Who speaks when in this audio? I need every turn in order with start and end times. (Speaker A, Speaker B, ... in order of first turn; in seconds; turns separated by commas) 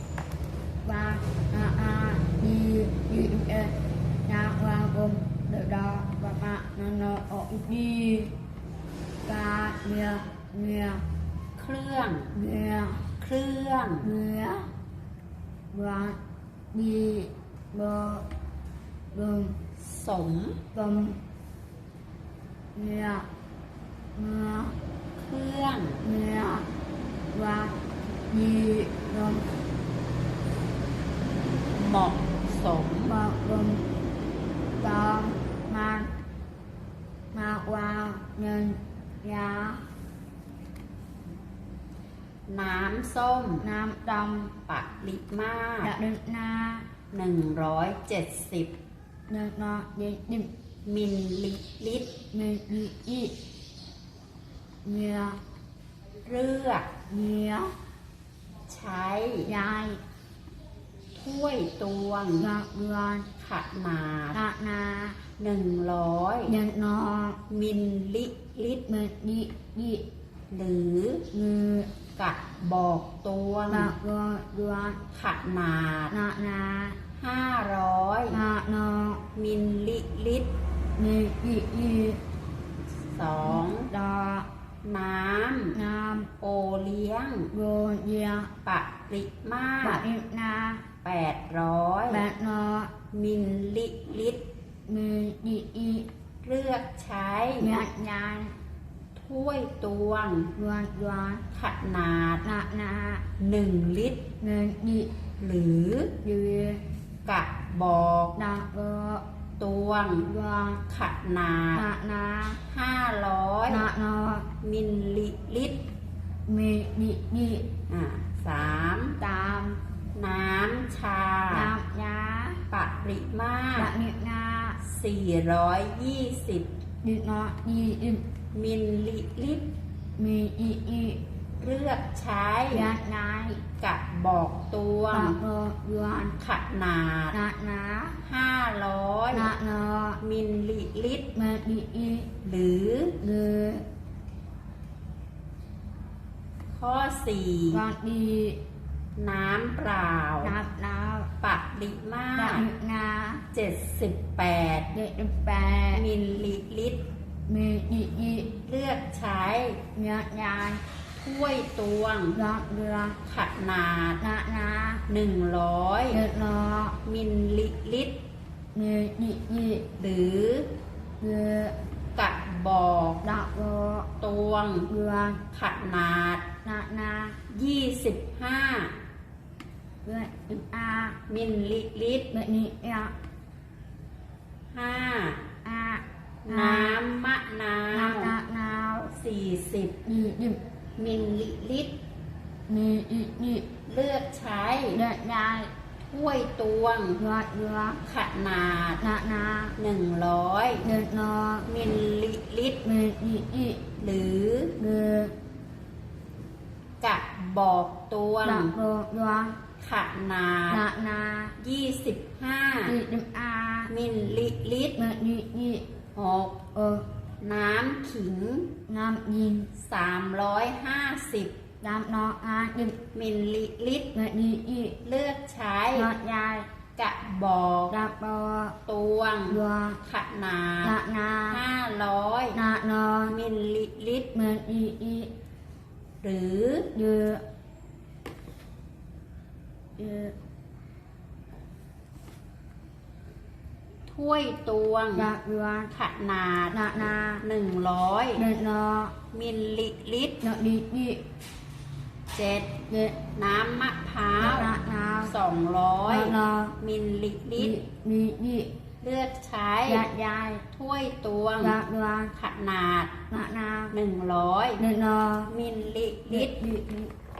Speaker A: 0.8-8.3, Speaker A: 9.2-11.0, Speaker B: 11.6-12.3, Speaker A: 12.3-13.1, Speaker B: 13.2-14.1, Speaker A: 14.0-14.7, Speaker A: 15.7-16.2, Speaker A: 16.7-18.2, Speaker A: 19.1-19.6, Speaker B: 19.8-20.6, Speaker A: 20.7-21.2, Speaker A: 22.7-23.3, Speaker A: 24.1-24.8, Speaker B: 25.1-26.0, Speaker A: 26.0-26.7, Speaker A: 27.3-27.8, Speaker A: 28.3-29.5, Speaker B: 31.7-33.1, Speaker A: 33.0-33.9, Speaker A: 34.8-36.1, Speaker A: 37.3-39.8, Speaker B: 42.5-43.7, Speaker A: 43.6-44.5, Speaker B: 44.7-45.9, Speaker A: 45.8-46.9, Speaker B: 47.1-48.7, Speaker A: 49.3-50.5, Speaker B: 50.8-52.1, Speaker A: 52.3-53.3, Speaker A: 54.8-55.4, Speaker B: 56.2-56.9, Speaker A: 57.1-57.7, Speaker B: 58.7-59.5, Speaker A: 59.4-60.0, Speaker B: 61.1-62.5, Speaker A: 62.4-63.3, Speaker B: 63.4-64.4, Speaker A: 64.3-65.2, Speaker B: 65.4-66.5, Speaker A: 66.5-67.4, Speaker B: 67.5-68.8, Speaker A: 68.8-70.0, Speaker B: 70.5-71.2, Speaker A: 71.3-71.9, Speaker B: 72.2-73.9, Speaker A: 73.7-75.0, Speaker B: 75.1-76.1, Speaker A: 76.1-77.0, Speaker B: 77.2-78.4, Speaker A: 78.3-79.2, Speaker B: 79.3-80.5, Speaker A: 81.0-82.2, Speaker B: 83.0-83.9, Speaker A: 83.5-84.5, Speaker B: 84.8-85.7, Speaker A: 85.7-86.3, Speaker B: 86.4-87.5, Speaker A: 87.5-88.5, Speaker B: 88.6-90.0, Speaker A: 89.8-90.8, Speaker B: 91.0-92.2, Speaker A: 92.1-92.9, Speaker B: 93.1-94.4, Speaker A: 94.9-96.1, Speaker B: 96.4-97.7, Speaker A: 97.6-98.5, Speaker B: 99.2-100.5, Speaker A: 100.5-101.4, Speaker B: 101.5-102.4, Speaker A: 102.4-103.3, Speaker B: 103.4-104.2, Speaker A: 104.4-105.1, Speaker B: 105.4-106.1, Speaker A: 106.2-106.8, Speaker B: 107.2-108.3, Speaker A: 108.3-109.2, Speaker B: 109.6-110.3, Speaker A: 110.2-110.8, Speaker B: 110.8-111.8, Speaker A: 111.7-112.6, Speaker B: 112.6-113.9, Speaker A: 113.7-114.5, Speaker B: 114.6-115.8, Speaker A: 116.5-117.7, Speaker B: 117.9-119.2, Speaker A: 119.2-119.8, Speaker B: 120.1-121.7, Speaker A: 121.5-122.6, Speaker B: 122.7-123.9, Speaker A: 123.8-124.8, Speaker B: 124.8-126.7, Speaker A: 127.0-128.2, Speaker B: 128.5-129.7, Speaker A: 130.2-131.2, Speaker B: 131.6-132.9, Speaker A: 132.7-133.6, Speaker B: 133.8-135.4, Speaker A: 135.1-136.3, Speaker B: 136.4-137.4, Speaker A: 137.3-138.2, Speaker B: 138.2-139.5, Speaker A: 139.3-140.2, Speaker B: 140.2-141.2, Speaker A: 141.3-142.3, Speaker B: 142.4-143.2, Speaker A: 143.2-143.8, Speaker B: 146.7-147.8, Speaker A: 147.7-148.6, Speaker B: 149.2-150.6, Speaker A: 150.4-151.3, Speaker B: 151.4-152.7, Speaker A: 152.3-153.4, Speaker B: 153.5-154.9, Speaker A: 154.9-156.0, Speaker B: 155.9-157.0, Speaker A: 157.5-158.5, Speaker B: 158.6-159.8, Speaker A: 159.9-160.8, Speaker B: 161.2-162.4, Speaker A: 162.3-163.2, Speaker B: 163.2-164.2, Speaker A: 164.2-165.0, Speaker B: 165.1-166.2, Speaker A: 166.1-167.0, Speaker B: 167.0-168.2, Speaker A: 168.7-169.9, Speaker B: 170.0-170.7, Speaker A: 171.2-171.7, Speaker B: 172.1-173.2, Speaker A: 173.2-174.1, Speaker B: 174.2-174.9, Speaker A: 174.9-175.4, Speaker B: 175.5-176.4, Speaker A: 176.6-177.4, Speaker B: 177.5-178.9, Speaker A: 180.0-181.2, Speaker B: 181.3-182.3, Speaker A: 182.3-183.1, Speaker B: 184.7-185.5, Speaker A: 185.6-187.0, Speaker B: 186.4-188.3, Speaker A: 187.9-189.1, Speaker B: 189.1-190.0, Speaker A: 190.0-190.6, Speaker B: 191.0-191.9, Speaker A: 192.7-193.7, Speaker B: 193.9-195.0, Speaker A: 194.9-195.7, Speaker B: 196.0-197.2, Speaker A: 197.2-198.0, Speaker B: 198.0-199.0, Speaker A: 199.0-199.7, Speaker B: 199.8-200.8, Speaker A: 200.8-201.7, Speaker B: 201.7-202.8, Speaker A: 202.8-203.8, Speaker B: 204.0-204.7, Speaker A: 204.8-205.3, Speaker B: 207.0-208.7, Speaker A: 208.4-209.6, Speaker B: 209.8-210.8, Speaker A: 210.7-211.6, Speaker B: 211.6-212.9, Speaker A: 212.8-213.9, Speaker B: 213.9-215.0, Speaker A: 214.9-215.8, Speaker B: 216.1-216.6, Speaker A: 216.7-217.0, Speaker B: 217.4-218.7, Speaker A: 218.9-219.7, Speaker B: 219.7-221.5, Speaker A: 221.8-223.0, Speaker B: 223.1-224.1, Speaker A: 224.1-225.0, Speaker B: 225.0-226.1, Speaker A: 225.9-226.7, Speaker B: 226.9-228.0, Speaker A: 227.9-228.8, Speaker B: 228.8-232.6, Speaker A: 229.5-230.0, Speaker A: 230.8-231.6, Speaker A: 232.5-233.4, Speaker B: 233.3-234.3, Speaker A: 234.3-235.3, Speaker B: 236.2-236.9, Speaker A: 236.9-237.4, Speaker A: 240.0-240.3, Speaker B: 244.1-245.3, Speaker A: 245.1-245.9, Speaker B: 245.9-246.8, Speaker A: 246.7-247.4, Speaker B: 247.4-248.4, Speaker A: 248.3-249.1, Speaker B: 249.3-250.4, Speaker A: 250.4-251.2, Speaker B: 252.3-252.7, Speaker A: 252.9-253.2, Speaker B: 253.3-254.7, Speaker A: 254.4-255.3, Speaker B: 255.2-257.8, Speaker A: 256.1-256.8, Speaker A: 257.6-258.7, Speaker B: 259.0-260.1, Speaker A: 259.9-260.6, Speaker B: 260.7-261.8, Speaker A: 261.6-262.3, Speaker B: 262.3-263.1, Speaker A: 263.3-263.9, Speaker B: 263.9-264.8, Speaker A: 264.8-265.5, Speaker B: 265.5-266.6, Speaker A: 266.3-267.1